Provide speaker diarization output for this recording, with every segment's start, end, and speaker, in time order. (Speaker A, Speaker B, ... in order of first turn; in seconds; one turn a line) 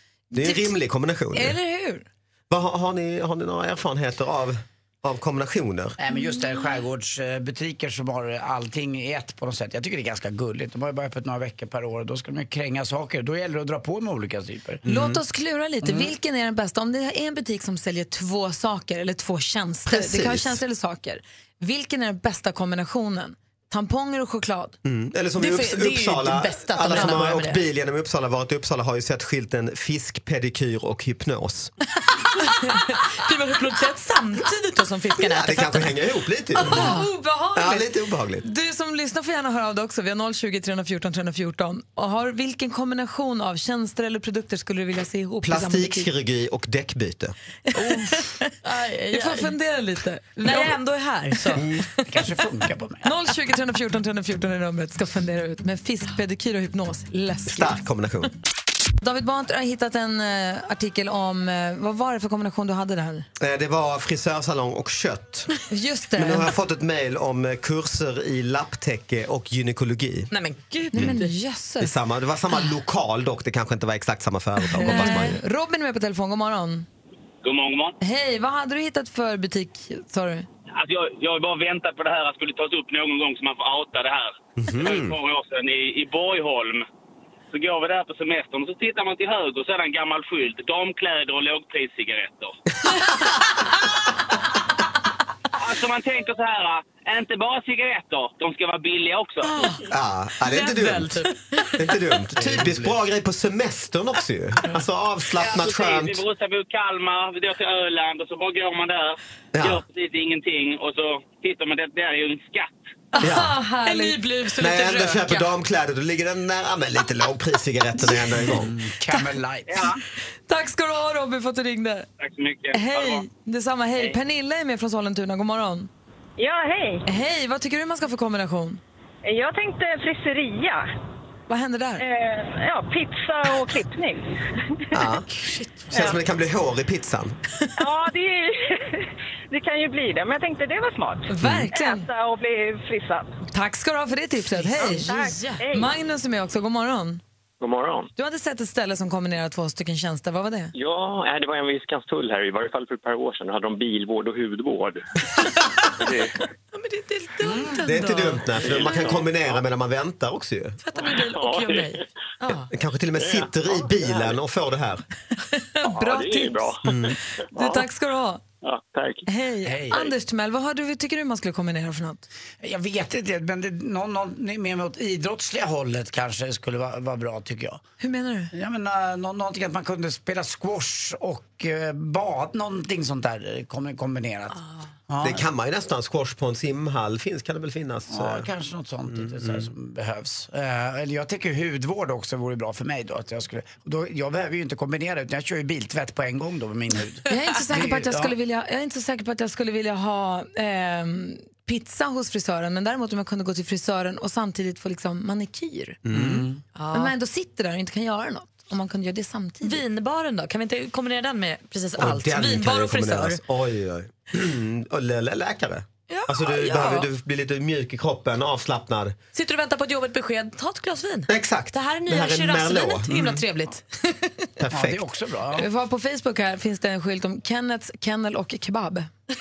Speaker A: 0.3-1.6
Speaker B: 0.3-0.7
Speaker B: 1.3-2.0
Speaker A: 2.5-6.0
Speaker C: 6.0-14.9
Speaker A: 14.9-15.2
Speaker B: 14.9-24.8
Speaker A: 19.9-20.6
Speaker A: 24.9-31.7
Speaker D: 25.4-27.6
Speaker B: 26.9-27.2
Speaker D: 32.5-36.0
Speaker A: 35.2-38.4
Speaker B: 36.6-37.9
Speaker D: 36.7-37.0
Speaker B: 38.4-46.1
Speaker A: 45.4-47.4
Speaker B: 47.7-48.4
Speaker D: 47.9-49.5
Speaker B: 49.1-50.8
Speaker D: 50.4-51.6
Speaker B: 51.4-51.6
Speaker C: 52.1-53.1
Speaker B: 53.0-57.8
Speaker A: 57.5-58.3
Speaker B: 59.0-63.2
Speaker A: 63.4-65.5
Speaker B: 65.7-66.5
Speaker A: 66.1-70.3
Speaker D: 70.3-71.3
Speaker B: 70.9-71.9
Speaker A: 71.8-75.4
Speaker B: 74.8-76.9
Speaker D: 74.8-75.3
Speaker E: 77.5-77.9
Speaker B: 78.0-80.5
Speaker E: 80.8-84.2
Speaker A: 84.6-85.2
Speaker E: 84.9-86.8
Speaker E: 87.5-92.5
Speaker E: 95.7-99.4
Speaker D: 99.4-99.8
Speaker A: 99.9-101.2
Speaker D: 100.4-102.0
Speaker A: 101.8-106.2
Speaker C: 102.4-102.9
Speaker E: 105.6-108.9
Speaker A: 109.5-109.8
Speaker E: 109.7-112.6
Speaker D: 113.1-115.5
Speaker B: 113.2-114.2
Speaker A: 113.2-113.5
Speaker A: 114.6-118.7
Speaker C: 118.5-119.9
Speaker B: 120.5-122.1
Speaker E: 122.2-122.7
Speaker B: 122.7-125.9
Speaker F: 126.4-127.0
Speaker B: 127.0-128.8
Speaker F: 129.2-130.8
Speaker B: 131.5-132.0
Speaker F: 132.0-134.2
Speaker A: 134.9-135.2
Speaker D: 135.3-136.1
Speaker A: 135.9-137.4
Speaker F: 137.8-138.5
Speaker F: 139.5-143.2
Speaker B: 141.3-142.1
Speaker A: 141.4-141.7
Speaker B: 143.5-147.2
Speaker D: 144.6-145.6
Speaker F: 145.1-145.7
Speaker G: 147.7-148.0
Speaker B: 148.2-150.7
Speaker G: 150.8-154.9
Speaker D: 156.7-159.2
Speaker A: 157.8-160.8
Speaker D: 160.8-162.7
Speaker A: 162.7-165.0
Speaker B: 165.8-166.8
Speaker A: 166.8-167.2
Speaker B: 167.5-168.4
Speaker B: 169.2-172.2
Speaker C: 169.6-170.1
Speaker C: 172.6-177.8
Speaker B: 178.0-178.5
Speaker C: 178.5-185.4
Speaker A: 185.2-188.5
Speaker C: 188.1-198.3
Speaker A: 189.1-189.7
Speaker B: 197.3-206.0
Speaker A: 206.1-206.4
Speaker C: 206.1-206.6
Speaker D: 206.7-207.1
Speaker B: 206.9-209.8
Speaker D: 209.6-213.4
Speaker A: 212.0-219.1
Speaker D: 216.1-217.1
Speaker D: 219.3-224.5
Speaker A: 221.3-223.1
Speaker C: 223.1-223.4
Speaker A: 224.6-225.0
Speaker C: 224.7-225.7
Speaker B: 225.6-229.1